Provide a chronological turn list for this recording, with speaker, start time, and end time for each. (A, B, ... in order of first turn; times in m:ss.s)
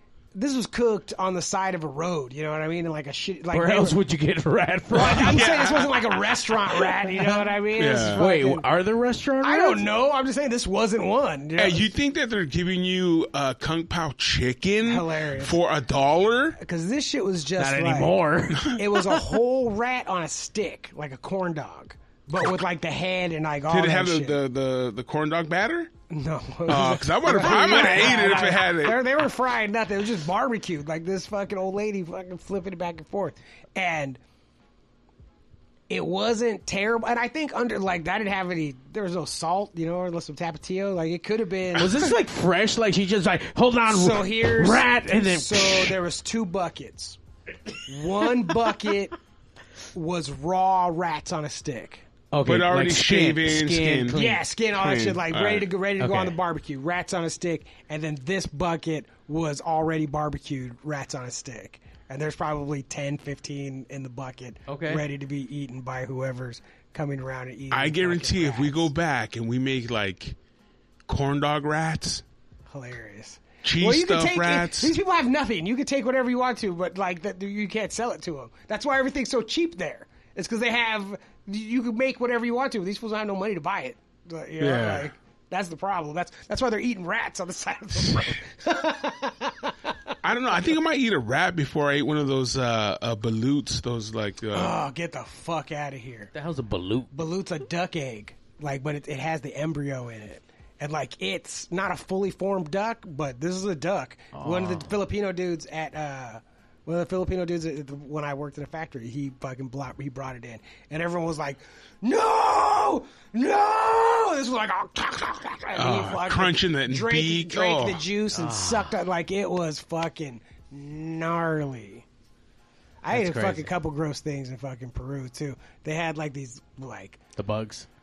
0:00.4-0:04.0 A
0:03.5-0:06.0 B
0:04.9-0:08.7 A
0:05.0-0:05.9 C
0:06.6-0:07.5 B
0:07.8-0:08.2 C
0:08.1-0:09.8 B
0:09.4-0:11.9 A
0:11.6-0:16.6 C
0:14.8-0:15.6 A
0:16.6-0:24.4 A
0:17.6-0:19.3 B
0:23.7-0:25.9 C
0:26.1-0:34.2 A
0:26.7-0:29.0 C
0:35.9-0:42.2 A
0:41.8-0:46.0 B
0:43.9-0:47.2 A
0:47.9-0:49.2 A
0:49.9-0:52.1 A
0:52.3-0:54.4 B
0:52.4-0:54.2 C
0:54.1-1:08.9 A
0:54.8-0:55.7 C
0:56.0-0:56.4 B
1:04.7-1:05.0 B
1:07.7-1:10.4 C
1:11.1-1:12.2 C
1:12.7-1:29.9 A
1:13.6-1:14.9 C
1:24.6-1:25.1 C
1:30.2-1:34.7 C
1:34.5-1:36.3 A
1:36.3-1:37.1 B
1:37.1-2:02.0 A
1:44.3-1:44.9 B
1:55.8-1:58.0 C
1:58.3-1:59.0 B
2:03.0-2:07.2 A
2:03.1-2:03.7 B
2:07.4-2:07.9 B